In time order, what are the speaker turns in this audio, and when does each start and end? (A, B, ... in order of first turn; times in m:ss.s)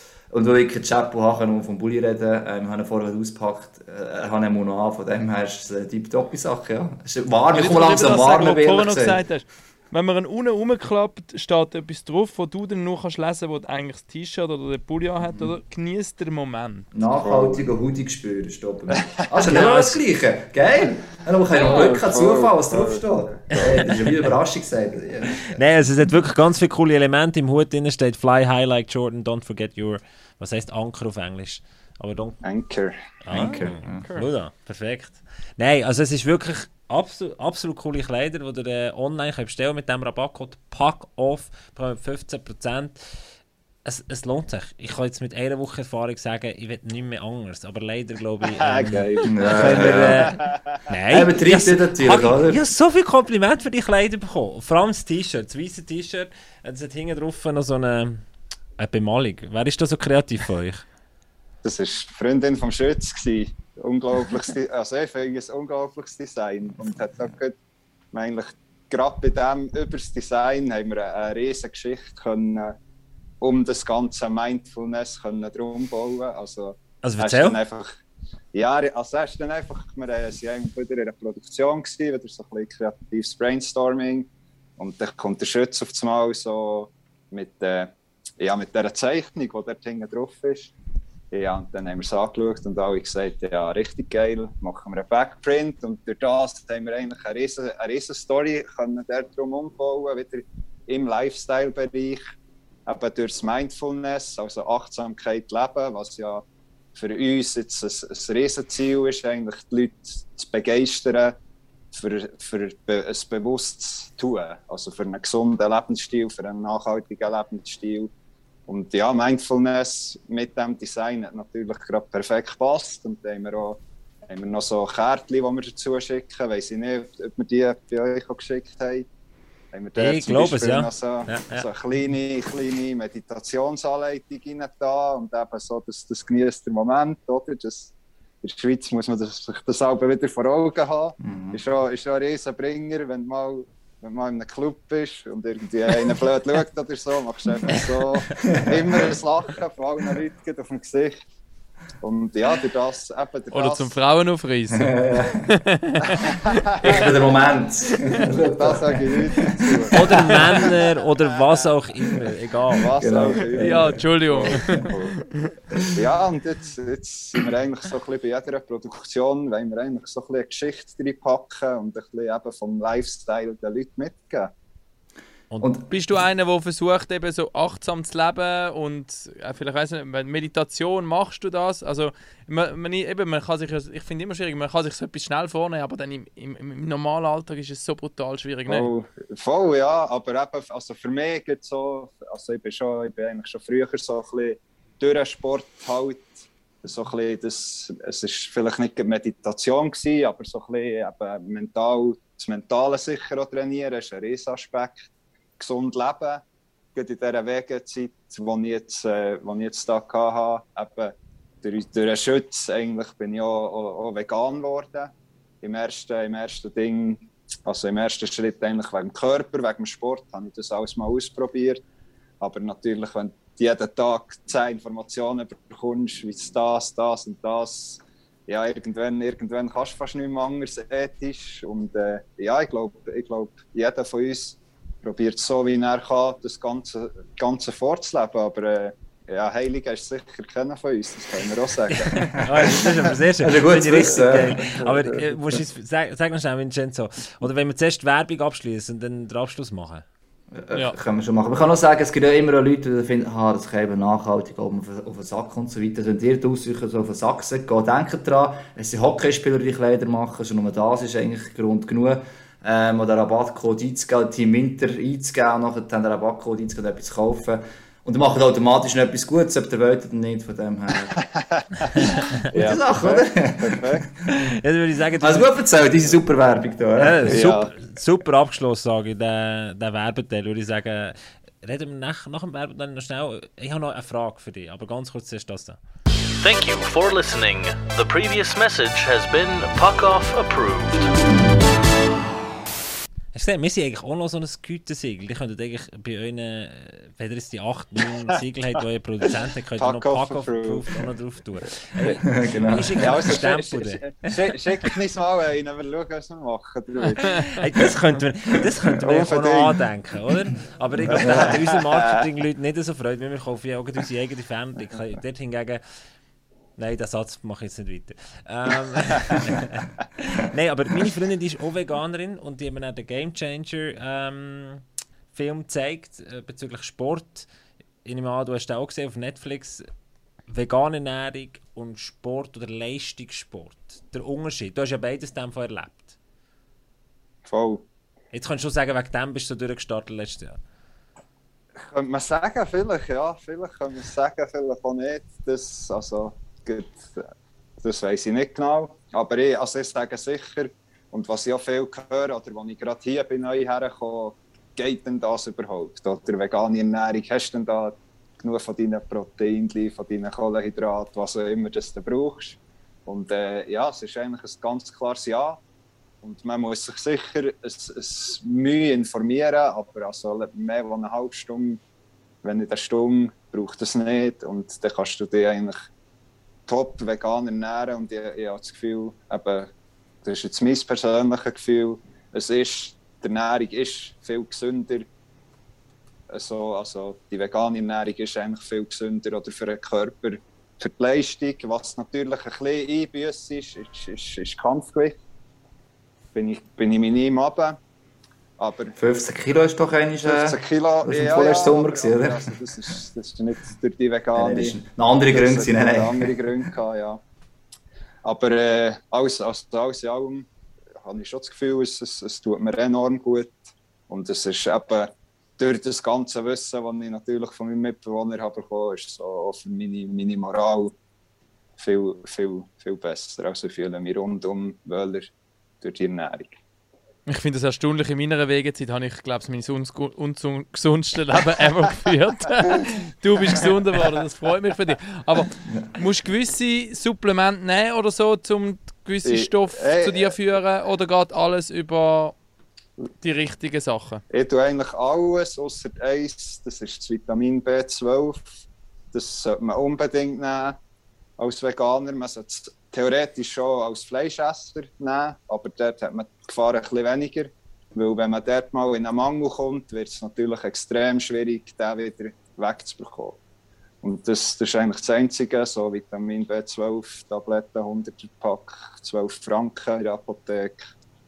0:00.3-0:09.2 A
0:07.5-0:16.9 B
0:15.3-0:15.6 A
0:16.9-0:25.6 A
0:17.2-0:17.6 C
0:18.9-0:19.2 C
0:19.5-0:20.0 D
0:21.5-0:23.9 C
0:25.5-0:32.4 D
0:32.4-0:32.9 C
0:33.2-0:43.0 D
0:33.3-0:34.1 A
0:43.8-0:58.2 D
0:48.6-0:50.8 C
0:49.3-0:50.3 A
0:51.1-0:52.6 A
0:58.8-1:00.8 D
1:01.6-1:07.6 C
1:08.1-1:12.8 C
1:13.4-1:17.9 C
1:17.0-1:17.6 D
1:18.5-1:30.7 C
1:31.3-1:42.2 C
1:42.9-1:46.4 C
1:47.0-1:51.4 C
1:51.9-1:58.1 C
1:58.7-2:09.1 C
2:09.7-2:31.2 C
2:10.0-2:11.7 D
2:21.2-2:21.6 A
2:28.4-2:28.8 A
2:32.0-2:34.0 C
2:33.5-2:36.5 B
2:34.7-2:35.5 A
2:36.8-2:40.7 A
2:38.6-2:40.0 C
2:39.9-2:42.9 D
2:42.8-2:45.2 C
2:43.0-2:44.8 A
2:43.6-2:45.5 B
2:46.0-2:54.5 C
2:55.6-2:55.9 A
2:55.9-3:08.9 B
3:08.7-3:26.4 C
3:27.0-3:41.8 C
3:42.4-4:02.4 C
4:02.0-4:10.1 D
4:02.5-4:02.8 A
4:03.4-4:04.8 A
4:10.6-4:31.2 A
4:31.3-4:32.0 C
4:32.5-4:34.1 C
4:32.5-4:34.6 A
4:34.3-4:35.9 D
4:35.2-4:37.4 A
4:37.0-4:45.8 D
4:37.3-4:37.7 C
4:46.4-4:51.1 E
4:53.3-5:04.0 D
4:59.8-5:01.0 C
5:02.2-5:03.3 A
5:03.0-5:07.5 C
5:07.5-5:15.8 D
5:09.0-5:09.8 C
5:11.1-5:11.6 A
5:11.2-5:12.1 C
5:16.8-5:27.5 D
5:28.0-5:29.9 D
5:30.5-5:36.2 D
5:37.4-5:37.8 C
5:38.3-5:40.6 D
5:41.8-5:47.3 C
5:47.8-6:05.6 C
6:06.2-6:11.8 C
6:12.4-6:15.9 C
6:16.7-6:19.7 C
6:20.2-6:25.1 C
6:26.3-6:35.2 C
6:36.4-6:37.8 C
6:38.6-6:39.0 C
6:39.0-6:42.5 A
6:40.2-6:44.8 C
6:44.3-6:46.3 A
6:45.3-6:47.2 C
6:48.2-6:50.5 C
6:51.0-7:01.0 C
7:01.8-7:05.3 C
7:05.8-7:06.6 C
7:07.3-7:22.4 B
7:19.2-7:20.4 C
7:23.2-7:24.2 B
7:24.3-7:30.8 C
7:31.4-7:43.4 C
7:44.0-7:50.8 C